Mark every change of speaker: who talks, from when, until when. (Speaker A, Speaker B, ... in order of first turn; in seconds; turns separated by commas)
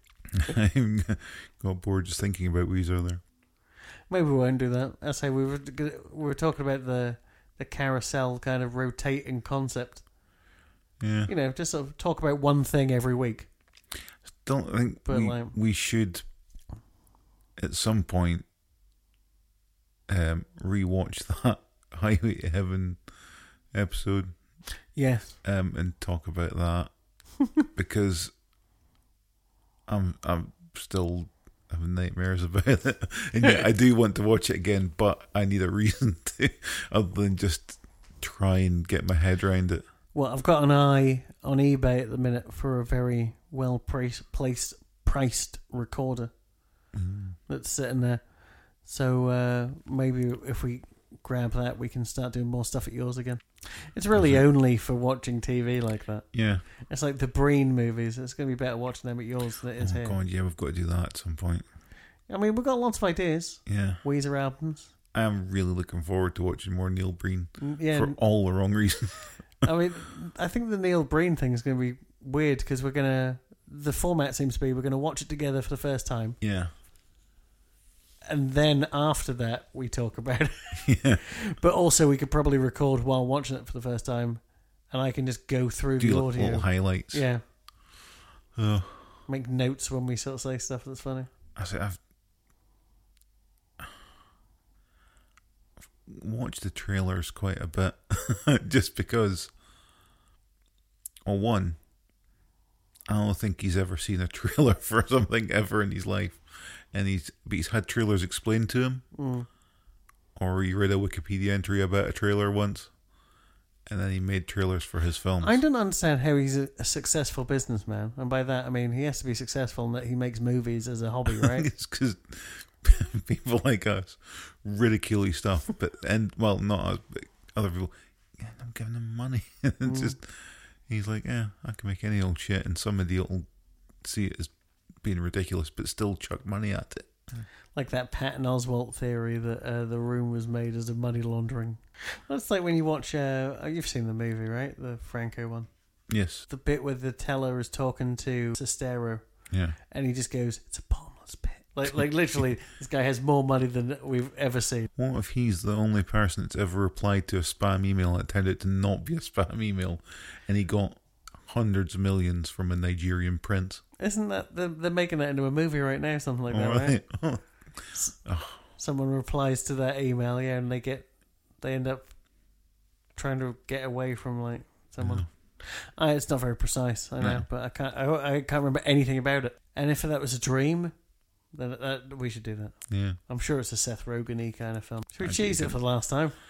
Speaker A: 0.3-3.2, Speaker B: 4.1-10.1, Speaker A: 11.0-11.3, Speaker B: 11.3-13.5, Speaker A: 14.3-16.2, Speaker B: 15.1-15.5, Speaker A: 17.6-18.4, Speaker A: 20.1-23.0, Speaker A: 23.7-24.3, Speaker B: 24.9-25.4, Speaker A: 25.4-26.9, Speaker A: 27.6-28.3, Speaker A: 29.9-39.8, Speaker B: 40.1-46.3, Speaker A: 46.9-47.4, Speaker B: 47.5-60.2, Speaker A: 54.1-54.5, Speaker A: 56.3-56.6, Speaker A: 59.8-61.6, Speaker B: 62.3-64.9, Speaker A: 63.7-64.0, Speaker A: 65.1-69.5, Speaker B: 67.6-68.2, Speaker B: 69.6-76.4, Speaker A: 76.4-76.7, Speaker B: 78.3-87.4, Speaker A: 80.8-81.2, Speaker A: 86.0-87.2, Speaker A: 88.5-89.1, Speaker B: 89.3-91.3, Speaker A: 91.6-92.0, Speaker A: 96.0-99.5, Speaker A: 101.2-101.8, Speaker A: 103.1-109.0, Speaker B: 109.1-109.5, Speaker A: 110.4-112.9, Speaker A: 113.9-115.6, Speaker B: 115.4-121.7, Speaker A: 121.3-133.5, Speaker B: 129.8-130.2, Speaker A: 134.0-134.5, Speaker A: 135.0-137.5, Speaker B: 137.8-145.7, Speaker A: 146.1-146.5, Speaker B: 146.5-154.9, Speaker A: 149.5-149.8, Speaker A: 155.0-163.8, Speaker B: 164.0-167.0, Speaker A: 166.5-168.6, Speaker B: 168.8-172.1, Speaker B: 173.2-181.0, Speaker A: 175.0-175.3, Speaker A: 177.2-177.4, Speaker B: 181.5-182.8, Speaker A: 182.9-183.2, Speaker B: 183.3-186.3, Speaker A: 185.2-185.8